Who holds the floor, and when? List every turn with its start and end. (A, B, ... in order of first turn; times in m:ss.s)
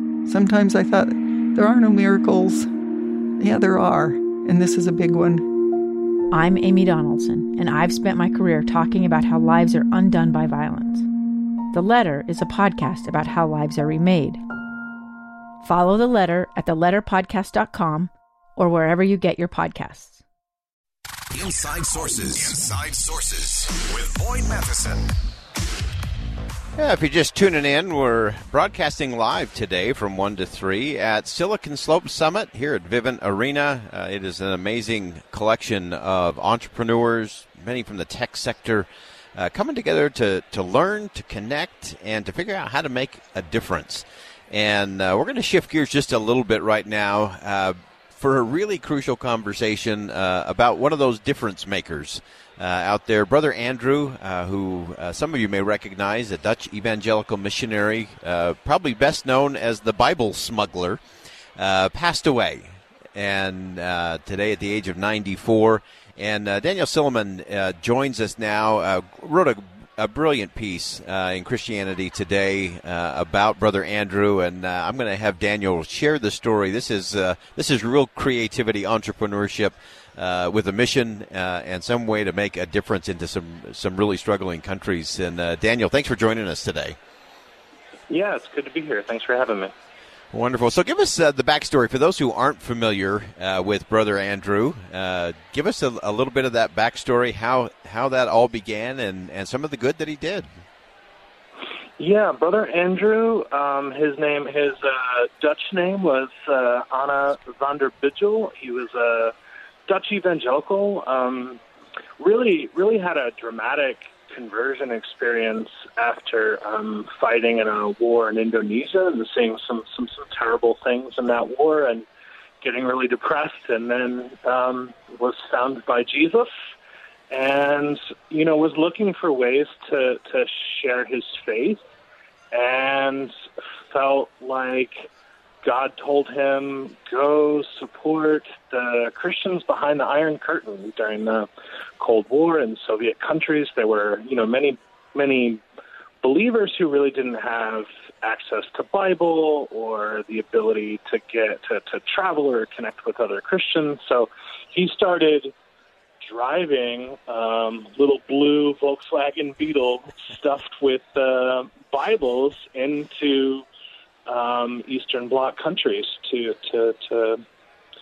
0:00.3-0:02.7 A
0:03.4-0:05.5 A
0:06.3-0:11.0 B
0:11.7-0:14.4 B
0:15.6-0:20.2 B
0:21.3-0:25.2 C
0:26.8-1:01.0 D
1:01.6-1:27.0 D
1:28.1-1:29.7 E
1:30.3-1:40.5 D
1:42.0-1:49.3 E
1:49.9-1:51.6 E
1:52.2-2:02.0 E
2:02.6-2:06.5 E
2:07.3-2:11.8 E
2:12.5-2:13.3 E
2:13.9-2:15.1 E
2:15.6-2:25.6 E
2:26.2-2:35.5 E
2:36.2-2:43.6 E
2:44.3-2:47.4 E